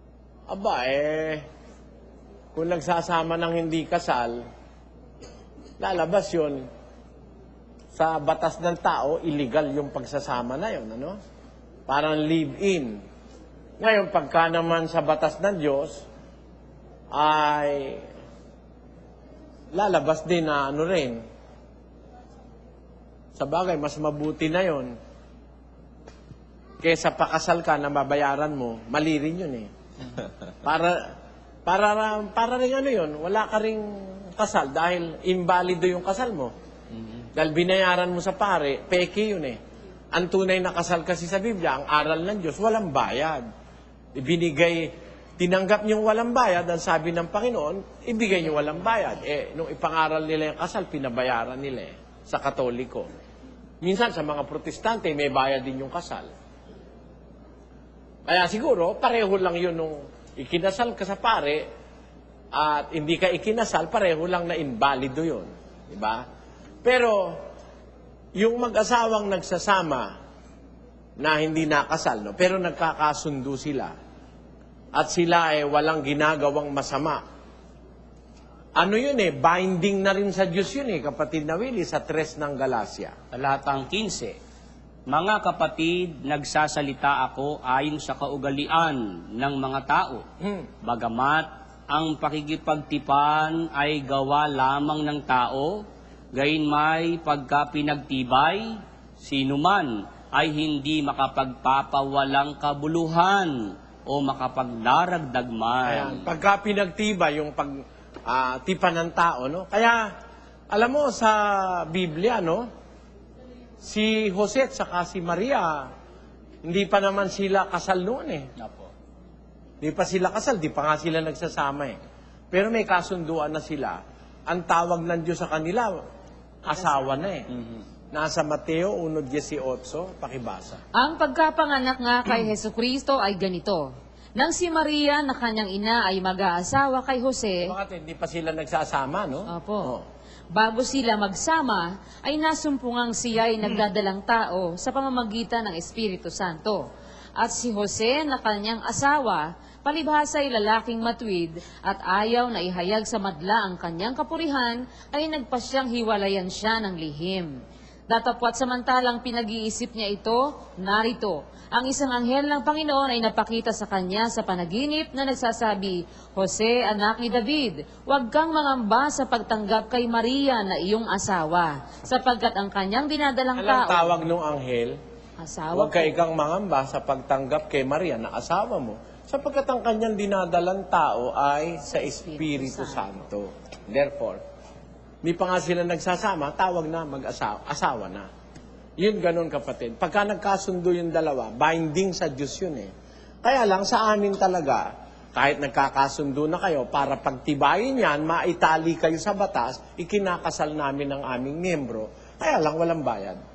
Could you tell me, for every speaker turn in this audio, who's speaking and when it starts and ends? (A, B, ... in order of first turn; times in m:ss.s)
0:00.5-0:01.4 A
0:02.5-0:04.4 A
0:05.8-0:06.6 A
0:07.9-0:11.2 A
0:11.9-0:13.0 A
0:13.8-0:16.0 A
0:17.1-0:18.0 A
0:19.7-0:21.2 A
0:23.4-0:24.9 A
0:26.8-0:29.7 A
0:30.6-0:31.1 A
0:31.6-0:36.5 A
0:37.3-0:39.6 A
0:40.1-0:43.4 A
0:44.1-0:53.1 A
0:53.8-0:56.3 A
0:58.2-1:01.6 A
1:02.5-1:06.2 A
1:06.8-1:07.4 A
1:08.4-1:10.1 A
1:11.2-1:13.9 A
1:14.9-1:17.2 A
1:18.7-1:23.1 A
1:23.3-1:24.4 B
1:25.1-1:30.2 B
1:30.4-1:30.7 A
1:30.8-1:35.8 B
1:36.3-1:38.7 B
1:39.2-1:43.5 B
1:44.1-1:46.2 B
1:45.8-1:50.1 A
1:50.7-1:52.7 A
1:53.8-1:55.9 A
1:56.6-1:58.5 A
1:58.6-1:58.9 B
1:59.8-2:02.0 A
2:02.5-2:06.0 A
2:06.6-2:07.5 A
2:06.7-2:07.2 C
2:07.5-2:07.8 B
2:08.1-2:10.8 A
2:10.9-2:17.7 C
2:17.6-2:20.0 A
2:19.5-2:19.9 C
2:20.5-2:26.8 C
2:27.4-2:37.6 C
2:38.1-2:54.1 C
2:53.6-2:55.0 A
2:55.4-2:56.2 C
2:55.7-3:04.4 A
3:01.9-3:03.1 C
3:05.2-3:08.3 A
3:09.0-3:12.9 A
3:13.4-3:14.8 A
3:15.3-3:23.4 A